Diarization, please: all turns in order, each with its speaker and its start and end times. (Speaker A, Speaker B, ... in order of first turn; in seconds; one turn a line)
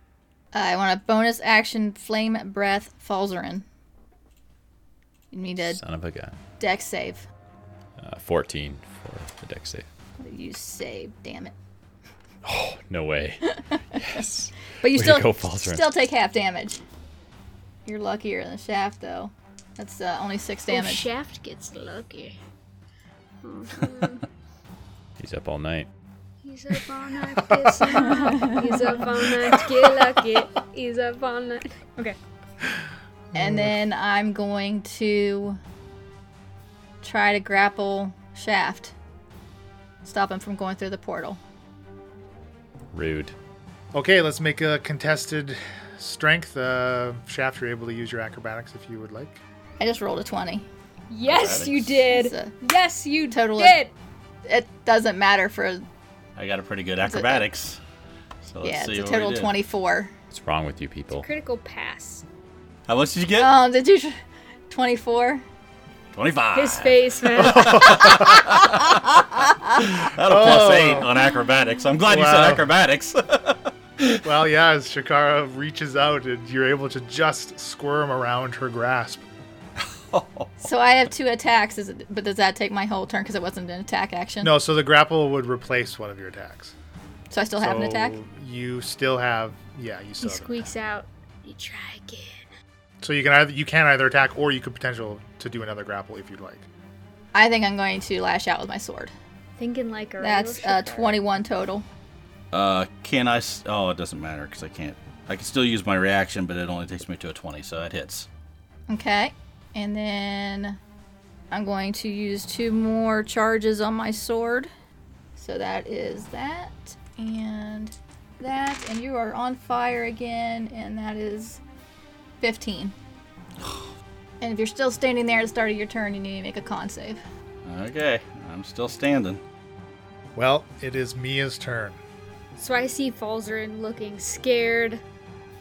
Speaker A: 0.5-3.7
Speaker A: 5.3-5.8
Speaker B: 5.7-6.4
Speaker A: 6.6-7.3
Speaker B: 8.0-9.9
Speaker A: 10.2-11.5
Speaker B: 12.4-15.9
Speaker A: 14.8-16.8
Speaker A: 17.9-21.1
Speaker C: 20.7-22.4
Speaker C: 23.4-24.3
Speaker B: 25.2-25.9
Speaker C: 26.4-32.2
Speaker A: 28.1-28.8
Speaker D: 33.3-33.7
Speaker A: 33.4-35.6
Speaker A: 37.0-38.9
Speaker A: 40.0-41.4
Speaker B: 42.9-43.4
Speaker D: 43.9-49.4
Speaker A: 49.8-50.7
Speaker C: 51.1-53.9
Speaker E: 51.3-52.0
Speaker A: 52.1-52.5
Speaker A: 53.3-53.8
Speaker A: 54.5-55.9
Speaker E: 56.4-57.8
Speaker A: 57.0-57.5
Speaker E: 58.4-59.5
Speaker A: 58.6-60.1
Speaker B: 60.3-61.3
Speaker C: 61.2-62.2
Speaker E: 62.9-63.5
Speaker A: 63.4-64.2
Speaker A: 64.7-65.4
Speaker E: 66.1-74.2
Speaker C: 66.5-68.0
Speaker D: 67.4-68.5
Speaker D: 70.0-71.1
Speaker D: 72.1-72.7
Speaker D: 74.2-79.2
Speaker E: 79.8-80.6
Speaker A: 80.6-84.5
Speaker D: 84.4-86.7
Speaker A: 87.3-88.2
Speaker D: 87.6-90.7
Speaker C: 90.2-92.5
Speaker D: 93.0-96.7
Speaker A: 97.3-99.1
Speaker C: 99.6-101.2
Speaker A: 100.2-101.9
Speaker E: 102.5-108.3
Speaker A: 108.9-110.8
Speaker A: 111.5-114.7
Speaker A: 115.4-121.6
Speaker A: 122.4-123.0
Speaker E: 123.6-123.9
Speaker A: 124.4-127.2
Speaker E: 127.7-129.4
Speaker D: 130.4-132.0
Speaker C: 132.6-135.0